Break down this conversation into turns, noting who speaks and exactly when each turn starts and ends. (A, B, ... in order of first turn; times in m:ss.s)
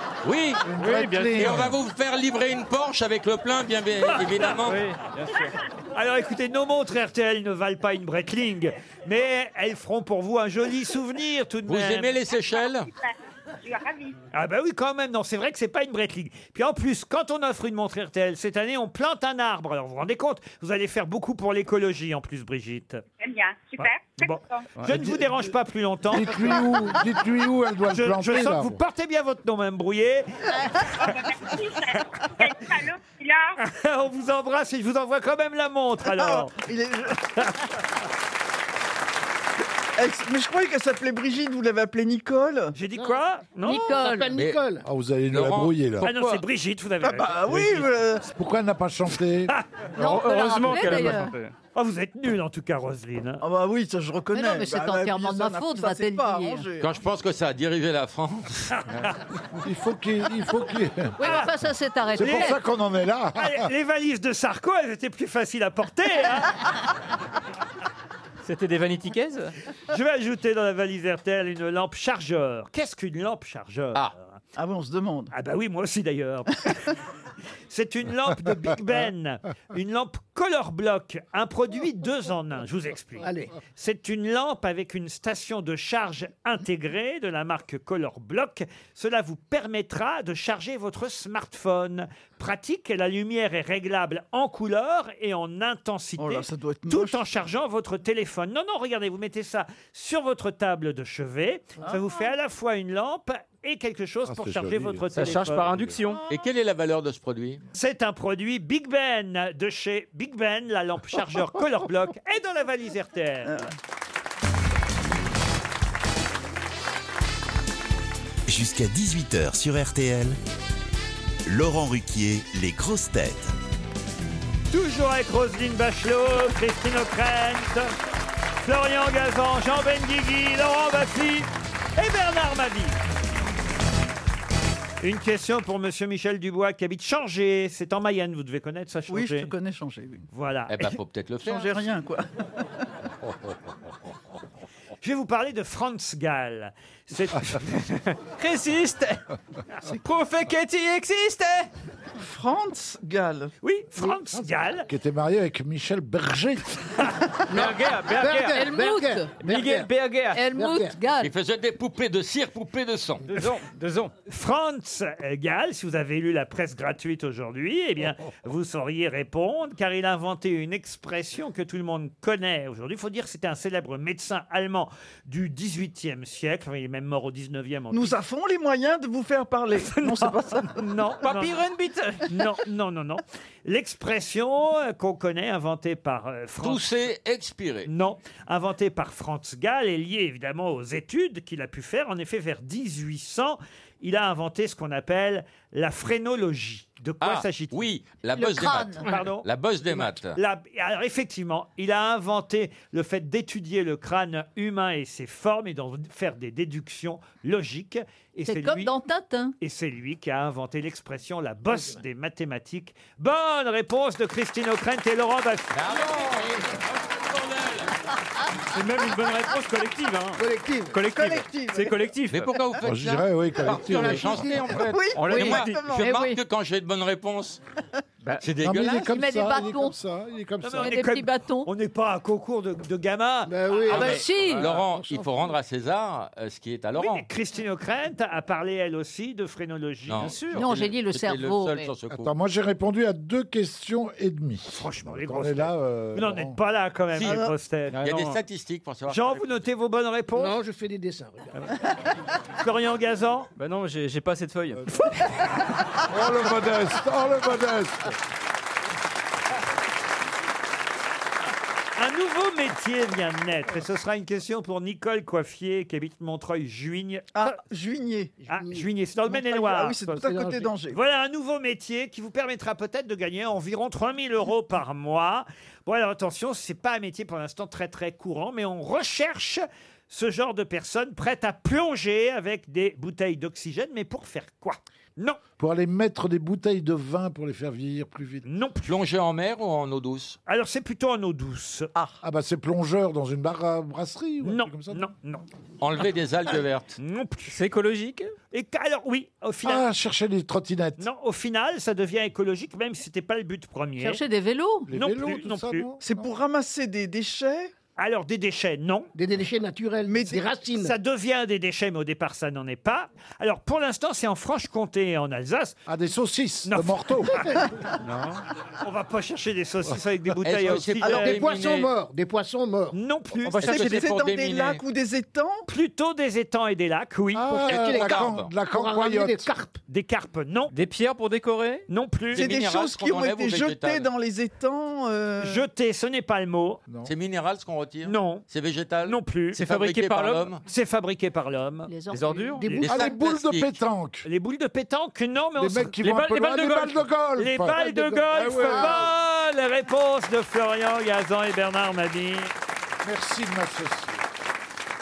0:00.2-0:00.6 A
0:00.6-0:01.8 B
0:00.8-0:01.6 C
0:01.4-0:04.8 A
0:04.6-0:05.6 C
0:06.0-0:12.2 D
0:11.7-0:12.9 A
0:12.3-0:14.2 E
0:14.3-0:23.0 D
0:23.2-0:24.7 E
0:24.2-0:26.7 D
0:24.8-0:25.0 C
0:26.1-0:28.8 B
0:27.9-0:30.3 D
0:31.0-0:33.6 E
0:33.6-0:36.5 D
0:36.1-0:37.3 F
0:40.0-0:42.8 F
0:42.8-0:44.1 D
0:43.6-0:44.4 G
0:43.9-0:44.9 H
0:44.4-0:44.6 A
0:44.8-0:46.1 B
0:45.3-0:46.4 A
0:46.0-0:47.9 D
0:47.0-0:48.3 F
0:48.2-0:49.5 B
0:50.0-0:51.4 G
0:50.0-0:51.5 C
0:51.8-0:53.4 D
0:53.4-0:56.9 F
0:54.3-0:56.7 G
0:56.8-0:58.7 A
0:59.6-1:01.5 B
1:01.2-1:02.6 G
1:01.2-1:01.5 D
1:02.1-1:03.7 B
1:02.2-1:02.5 D
1:03.4-1:06.8 D
1:08.4-1:09.5 C
1:09.9-1:14.4 D
1:14.6-1:15.3 F
1:15.3-1:16.9 D
1:17.7-1:45.7 D
1:23.2-1:23.6 H
1:36.2-1:37.2 F
1:44.3-1:46.0 B
1:45.1-1:46.2 C
1:46.3-1:47.6 A
1:47.7-1:53.6 D
1:53.4-1:53.7 F
1:58.5-2:00.4 I
2:01.4-2:03.5 I
2:04.7-2:07.9 D
2:08.6-2:13.0 D
2:15.0-2:19.5 D
2:19.1-2:20.3 F
2:20.3-2:20.9 D
2:20.7-2:21.7 A
2:21.4-2:22.3 F
2:25.0-2:27.8 D
2:28.4-2:29.2 C
2:29.8-2:31.7 C
2:32.2-2:33.5 F
2:33.6-2:34.9 D
2:34.0-2:34.6 H
2:34.9-2:36.8 B
2:37.5-2:39.9 H
2:37.5-2:38.7 C
2:38.4-2:39.3 G
2:39.4-2:40.5 C
2:40.3-2:41.3 G
2:40.5-2:41.0 H
2:41.2-2:43.3 A
2:43.3-2:44.1 C
2:44.3-2:58.2 D
2:57.9-3:00.9 F
2:59.8-3:01.6 D
3:01.2-3:02.5 C
3:02.3-3:06.9 D
3:06.6-3:07.9 A
3:07.9-3:17.9 D
3:17.2-3:20.4 A
3:18.4-3:19.1 G
3:19.1-3:19.5 D
3:20.2-3:28.9 D
3:28.5-3:29.6 G
3:29.6-3:35.8 D
3:31.7-3:32.0 H
3:35.7-3:37.9 A
3:36.2-3:36.8 H
3:38.6-3:42.6 C
3:40.4-3:41.0 H
3:41.1-3:42.2 F
3:42.3-3:47.6 A
3:42.8-3:44.6 B
3:43.6-3:44.8 H
3:44.8-3:46.1 F
3:45.2-3:45.8 C
3:45.3-3:46.4 G
3:48.4-3:49.1 A
3:48.6-3:51.0 B
3:49.0-3:50.0 G
3:50.6-3:53.6 D
3:50.8-3:51.7 G
3:53.5-3:55.5 H
3:53.8-3:54.7 G
3:53.9-3:57.3 A
3:54.3-3:54.8 C
3:57.0-4:00.3 D
4:00.1-4:02.3 A
4:00.2-4:00.7 C
4:00.5-4:01.9 G
4:02.1-4:06.6 B
4:04.7-4:08.0 D
4:07.2-4:07.5 F
4:07.9-4:08.4 C
4:08.0-4:09.6 A
4:09.1-4:10.6 D
4:10.4-4:11.8 H
4:12.6-4:13.5 D
4:13.6-4:14.9 C
4:16.1-4:18.1 B
4:22.0-4:27.6 D
4:27.3-4:28.4 F
4:28.4-4:28.9 H
4:28.5-4:30.2 D
4:29.3-4:31.0 F
4:30.1-4:30.7 H
4:30.9-4:45.4 D
4:45.6-4:48.5 B
4:48.4-4:48.9 D
4:48.9-4:50.4 A
4:50.5-4:51.9 D
4:52.2-4:55.1 B
4:54.4-4:55.4 D
4:55.8-4:57.0 A
4:57.0-4:57.6 D
4:57.5-4:58.3 C
4:58.5-4:59.9 D
4:59.6-5:01.1 B
5:01.0-5:04.2 D
5:04.0-5:04.9 G
5:04.9-5:06.3 B
5:04.9-5:05.9 D
5:06.0-5:07.7 F
5:08.0-5:09.1 D
5:09.2-5:11.0 H
5:10.0-5:10.4 F
5:10.8-5:15.8 D
5:15.9-5:17.5 B
5:16.7-5:17.4 D
5:17.3-5:17.6 H
5:18.0-5:18.4 C
5:18.8-5:21.4 D
5:20.4-5:21.9 A
5:21.0-5:21.4 F
5:21.2-5:23.0 H
5:22.9-5:23.7 D
5:23.4-5:24.1 C
5:23.6-5:25.6 F
5:23.6-5:24.8 A
5:25.7-5:27.7 D
5:27.3-5:29.5 B
5:27.5-5:29.8 H
5:27.7-5:28.5 A
5:29.9-5:30.7 D
5:30.7-5:31.9 C
5:31.9-5:32.5 D
5:32.3-5:34.1 A
5:32.3-5:35.6 F
5:35.4-5:36.8 D
5:37.0-5:40.6 A
5:38.0-5:38.4 D
5:39.0-5:39.6 D
5:39.5-5:40.5 C
5:40.7-5:41.9 D
5:41.9-5:43.1 G
5:42.1-5:42.8 C
5:42.8-5:43.7 A
5:42.8-5:44.3 B
5:44.2-5:52.5 D
5:45.6-5:49.1 B
5:46.1-5:46.8 C
5:48.6-5:49.1 G
5:53.0-5:54.2 B